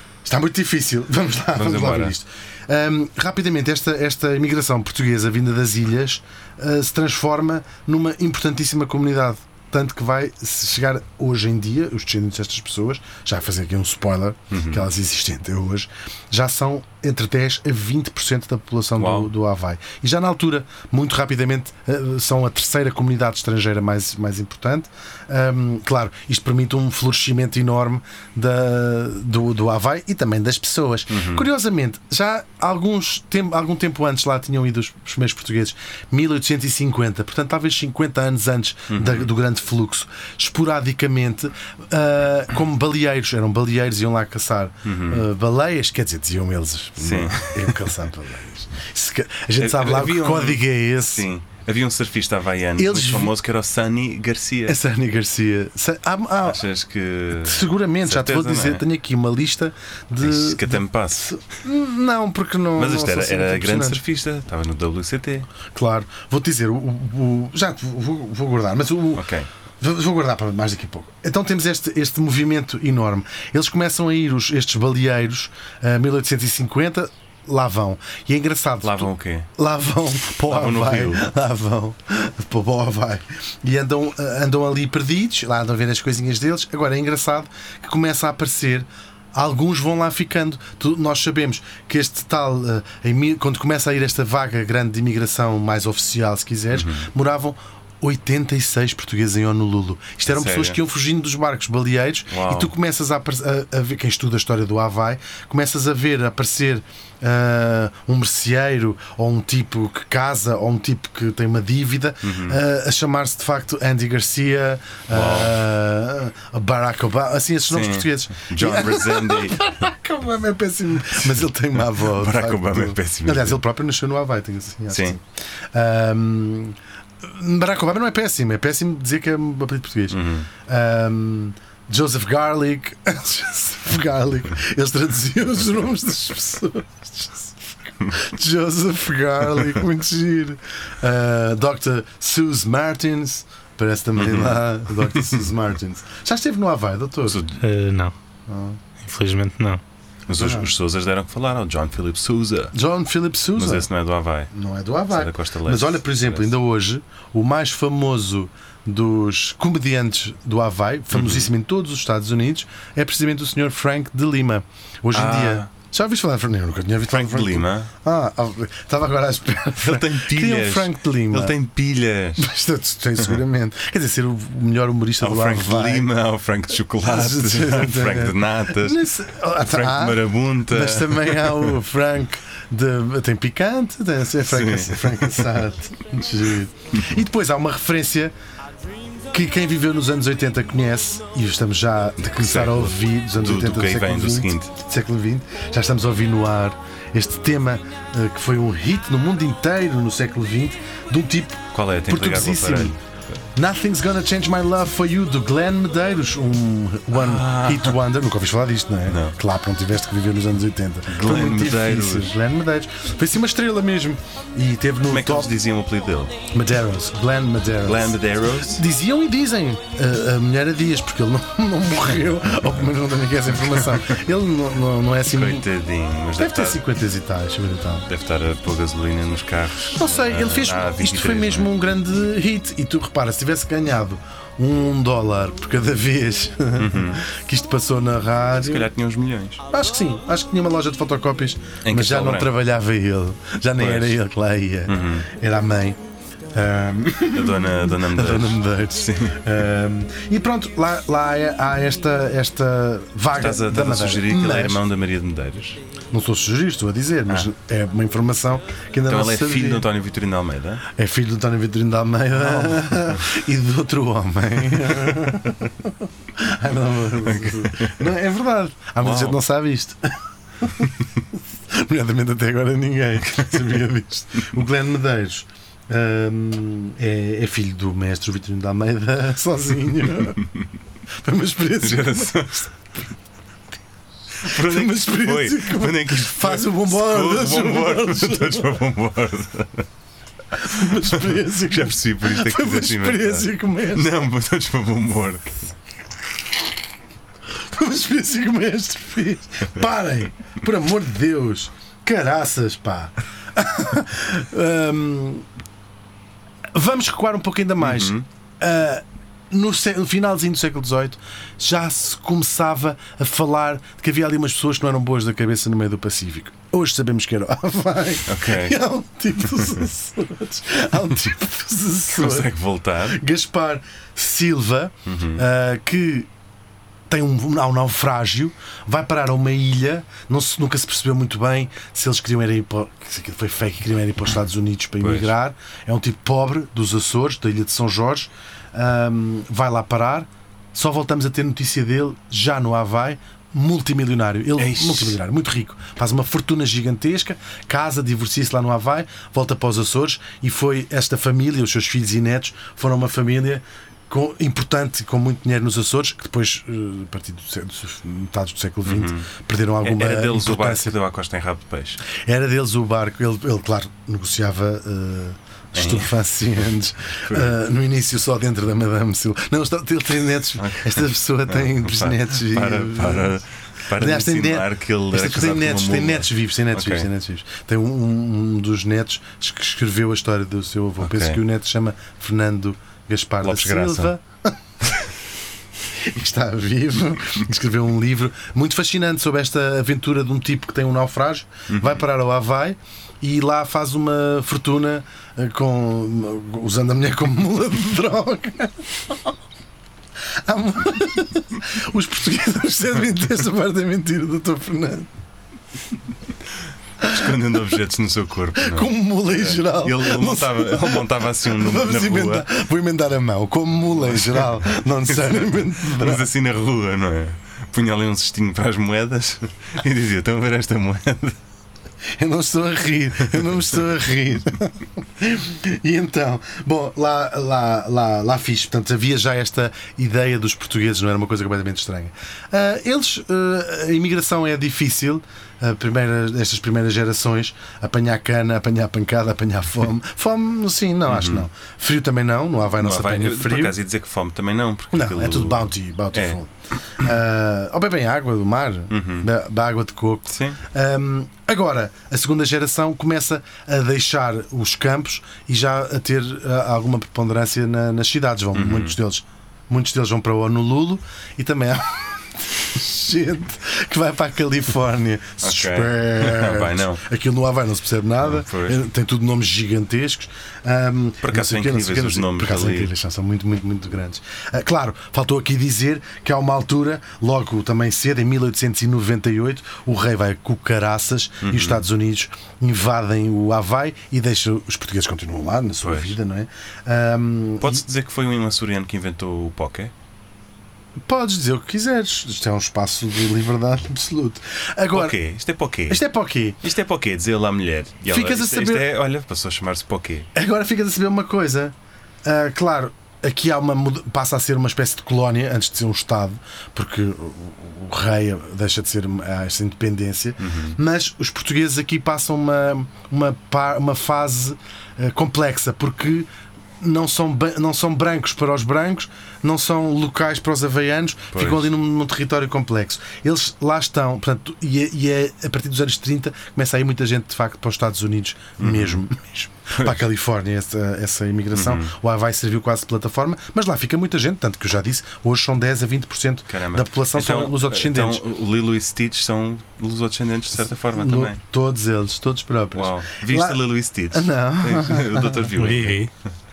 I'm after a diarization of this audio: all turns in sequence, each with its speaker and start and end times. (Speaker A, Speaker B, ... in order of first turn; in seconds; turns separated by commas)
Speaker A: 0.2-51.3, Speaker B: 1.5-2.1, Speaker B: 14.5-14.9, Speaker B: 19.0-19.3, Speaker B: 31.1-31.4, Speaker B: 38.9-39.3, Speaker B: 44.8-45.2, Speaker B: 47.0-47.9, Speaker B: 49.6-54.8, Speaker A: 52.8-53.3, Speaker A: 54.7-56.6, Speaker B: 56.4-58.8, Speaker A: 57.4-64.0, Speaker B: 60.2-61.3, Speaker B: 62.8-65.5, Speaker A: 65.7-69.3, Speaker B: 69.1-69.5, Speaker A: 69.8-147.4, Speaker B: 78.8-79.5, Speaker B: 80.5-81.2, Speaker B: 96.7-97.1, Speaker B: 100.3-100.8, Speaker B: 102.3-102.7, Speaker B: 112.2-112.6, Speaker B: 115.1-115.6, Speaker B: 117.7-119.7, Speaker B: 121.9-123.6, Speaker B: 124.9-125.2, Speaker B: 130.1-130.5, Speaker B: 144.1-145.4, Speaker B: 147.2-147.6, Speaker C: 147.6-148.1, Speaker A: 148.5-148.8, Speaker C: 149.0-149.8, Speaker B: 150.3-152.7, Speaker A: 150.3-150.7, Speaker A: 152.7-153.9, Speaker B: 153.6-154.5, Speaker A: 154.5-171.6, Speaker B: 155.1-156.5, Speaker B: 161.1-161.5, Speaker B: 165.1-165.7, Speaker B: 167.1-167.9, Speaker B: 169.8-172.4, Speaker A: 172.4-176.1, Speaker B: 175.2-179.1, Speaker A: 177.0-188.3, Speaker B: 179.6-181.8, Speaker B: 184.5-185.6, Speaker A: 189.3-203.0, Speaker B: 192.3-194.7, Speaker B: 201.7-203.4, Speaker A: 203.5-215.5, Speaker B: 207.1-208.0, Speaker B: 209.1-209.4, Speaker B: 211.1-212.3, Speaker B: 215.1-216.3, Speaker A: 216.5-225.7, Speaker B: 217.8-218.8, Speaker B: 225.3-226.8, Speaker A: 226.4-228.1, Speaker B: 228.1-231.7, Speaker A: 229.9-238.9, Speaker B: 236.8-237.2, Speaker B: 238.6-239.6, Speaker A: 239.7-246.0, Speaker B: 241.8-242.5, Speaker B: 243.8-244.2, Speaker B: 244.9-245.3, Speaker A: 246.5-254.8, Speaker B: 247.3-249.4, Speaker B: 253.4-255.8, Speaker A: 256.1-259.9, Speaker B: 259.1-260.8, Speaker A: 260.9-280.4, Speaker B: 262.3-263.2, Speaker B: 267.2-268.1, Speaker B: 269.0-269.4, Speaker B: 280.2-280.6, Speaker A: 281.2-282.4, Speaker B: 281.8-282.7, Speaker B: 284.4-289.9, Speaker A: 284.4-288.8, Speaker A: 290.5-294.2, Speaker B: 290.7-295.6, Speaker A: 297.5-305.4, Speaker A: 306.7-326.3, Speaker B: 307.8-308.2, Speaker B: 318.3-318.8, Speaker B: 322.1-323.2, Speaker B: 325.1-325.4, Speaker A: 327.1-360.9, Speaker B: 335.0-335.3, Speaker B: 344.6-345.2, Speaker B: 358.8-359.3, Speaker B: 359.8-362.0, Speaker A: 362.1-373.4, Speaker B: 365.7-366.2, Speaker B: 367.2-367.5, Speaker B: 370.6-377.1, Speaker A: 373.9-384.6, Speaker B: 381.0-381.4, Speaker B: 383.4-384.1, Speaker A: 385.9-399.4, Speaker B: 391.7-392.0, Speaker A: 400.3-405.1, Speaker A: 407.0-407.4, Speaker B: 407.0-412.5, Speaker A: 408.6-416.3, Speaker B: 415.2-421.4, Speaker A: 422.2-443.8, Speaker B: 441.1-441.5, Speaker B: 442.8-446.4, Speaker A: 444.9-487.8, Speaker B: 448.9-449.3, Speaker B: 450.3-450.6, Speaker B: 458.5-459.0, Speaker B: 465.4-467.0, Speaker B: 468.2-468.8, Speaker B: 471.2-472.9, Speaker B: 481.4-481.8, Speaker B: 485.8-486.1, Speaker B: 487.6-489.9, Speaker A: 491.0-495.2, Speaker B: 494.9-496.0, Speaker A: 495.9-496.6, Speaker B: 496.6-500.3, Speaker A: 498.1-498.9, Speaker A: 500.3-516.3, Speaker B: 510.4-510.8, Speaker A: 516.8-538.2, Speaker B: 521.3-521.7, Speaker B: 528.6-529.0, Speaker B: 529.7-530.0, Speaker B: 531.5-531.9, Speaker B: 536.5-541.4, Speaker A: 540.6-543.6, Speaker B: 542.7-546.1, Speaker A: 544.1-545.5, Speaker C: 545.5-546.1